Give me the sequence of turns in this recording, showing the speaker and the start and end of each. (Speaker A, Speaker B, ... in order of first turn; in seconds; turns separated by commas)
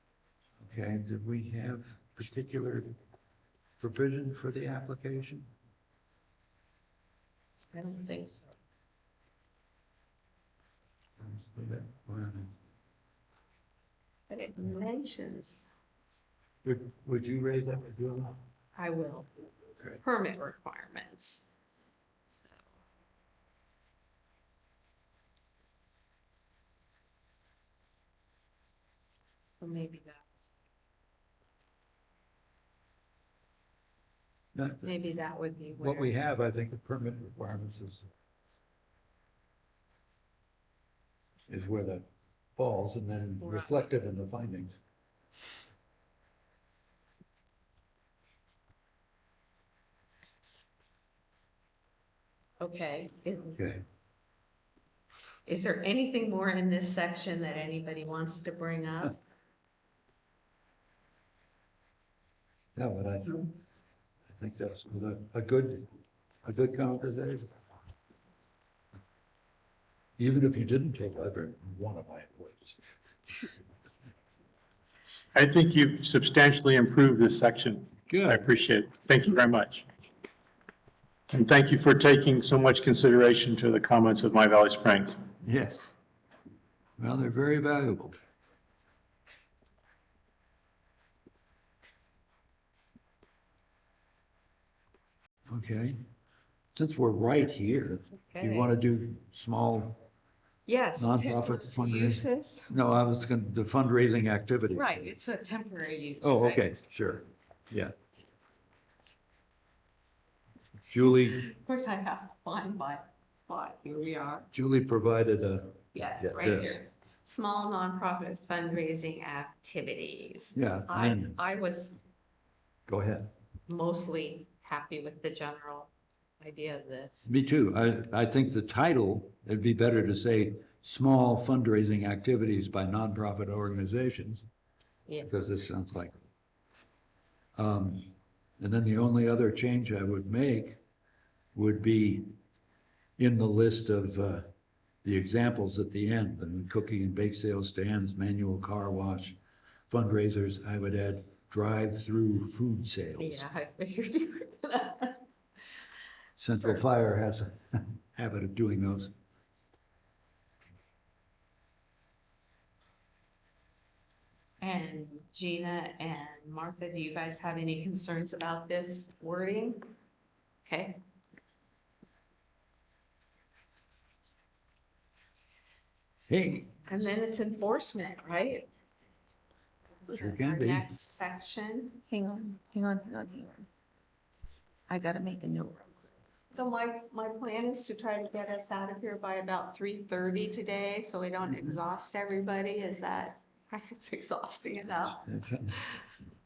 Speaker A: 0.6-2.9, Speaker A: 3.8-5.5, Speaker B: 7.7-8.5, Speaker A: 11.2-12.5, Speaker B: 14.3-15.7, Speaker A: 16.6-18.4, Speaker B: 18.8-19.3, Speaker B: 20.0-21.5, Speaker B: 22.3-22.6, Speaker B: 29.6-30.6, Speaker A: 34.5-35.1, Speaker B: 34.8-36.1, Speaker A: 35.8-38.1, Speaker A: 41.5-42.0, Speaker A: 42.6-44.7, Speaker B: 43.4-43.9, Speaker B: 52.6-53.6, Speaker A: 53.6-53.8, Speaker B: 55.5-59.2, Speaker A: 62.8-63.5, Speaker A: 64.3-65.9, Speaker A: 66.5-67.5, Speaker A: 70.2-72.8, Speaker C: 75.3-79.9, Speaker A: 78.1-78.5, Speaker C: 81.3-85.2, Speaker A: 85.4-85.9, Speaker A: 87.0-88.2, Speaker A: 95.5-96.0, Speaker A: 96.7-100.0, Speaker B: 98.3-98.7, Speaker B: 100.7-102.7, Speaker A: 101.0-105.1, Speaker B: 104.7-106.7, Speaker A: 106.2-107.9, Speaker A: 110.9-111.5, Speaker B: 110.9-114.5, Speaker A: 114.5-116.8, Speaker B: 115.9-122.0, Speaker A: 120.5-121.4, Speaker A: 122.9-123.3, Speaker B: 123.7-127.3, Speaker A: 127.3-134.4, Speaker B: 135.1-135.3, Speaker A: 135.2-136.2, Speaker A: 137.6-140.8, Speaker A: 141.6-142.3, Speaker A: 143.2-144.5, Speaker A: 145.0-149.4, Speaker A: 149.9-153.5, Speaker B: 153.2-155.2, Speaker A: 156.4-159.1, Speaker B: 156.5-156.8, Speaker B: 164.6-169.9, Speaker B: 170.7-171.0, Speaker A: 176.3-176.9, Speaker B: 176.9-178.7, Speaker B: 180.0-182.0, Speaker A: 180.1-180.9, Speaker D: 182.1-183.7, Speaker D: 184.9-185.9, Speaker B: 186.5-195.3, Speaker A: 195.2-195.8